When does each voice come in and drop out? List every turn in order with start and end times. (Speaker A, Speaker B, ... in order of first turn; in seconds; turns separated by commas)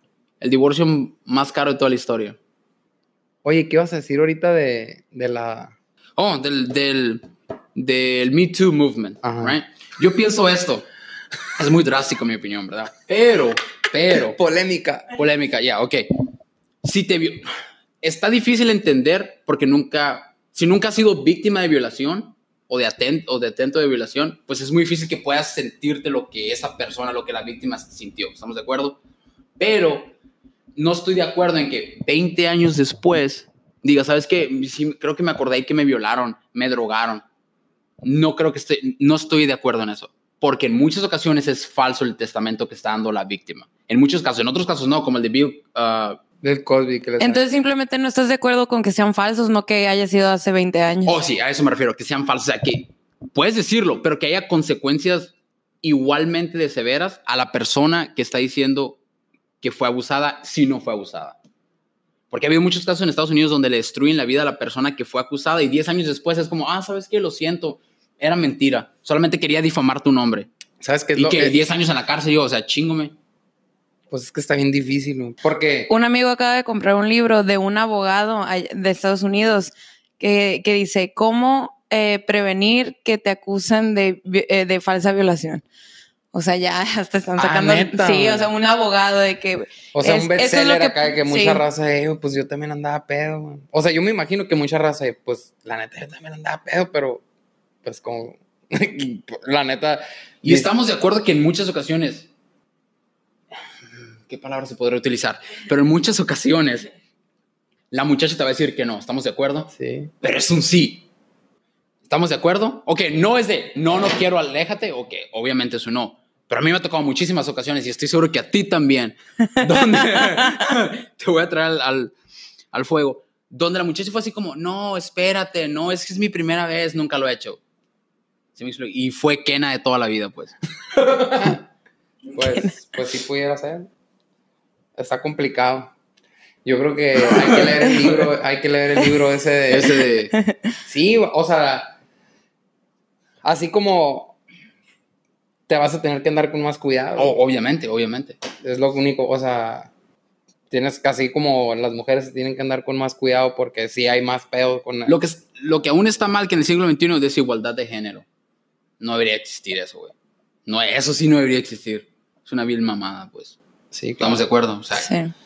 Speaker A: 0.4-2.4, Speaker B: 3.4-5.8, Speaker A: 6.2-10.9, Speaker B: 9.2-9.6, Speaker A: 11.6-14.4, Speaker B: 14.3-15.1, Speaker A: 15.1-16.1, Speaker A: 16.8-17.5, Speaker A: 18.0-29.0, Speaker A: 29.6-30.1, Speaker A: 30.8-37.2, Speaker A: 38.0-46.2, Speaker B: 46.4-47.4, Speaker C: 47.2-51.2, Speaker A: 51.0-59.0, Speaker A: 59.6-61.4, Speaker A: 62.3-70.5, Speaker B: 70.8-71.6, Speaker A: 71.2-73.2, Speaker B: 74.1-75.9, Speaker C: 75.9-85.6, Speaker C: 86.3-91.6, Speaker B: 87.4-88.5, Speaker B: 89.9-97.2, Speaker B: 97.8-100.7, Speaker A: 100.4-102.3, Speaker A: 104.2-106.9, Speaker A: 107.9-111.0, Speaker B: 109.7-110.1, Speaker A: 112.1-122.1, Speaker A: 122.7-127.6, Speaker A: 128.6-130.6, Speaker B: 130.9-131.6, Speaker C: 132.3-132.9, Speaker B: 132.3-133.9, Speaker B: 135.0-135.9, Speaker B: 136.7-140.0, Speaker A: 139.7-140.3, Speaker C: 140.3-140.7, Speaker B: 140.9-141.9, Speaker B: 143.4-144.3, Speaker B: 145.7-147.4, Speaker A: 147.2-148.4, Speaker B: 148.6-149.9, Speaker B: 150.7-155.2, Speaker A: 155.1-158.3, Speaker A: 159.0-160.1, Speaker A: 160.7-163.6, Speaker B: 163.9-164.5, Speaker A: 164.2-165.1, Speaker C: 164.9-165.3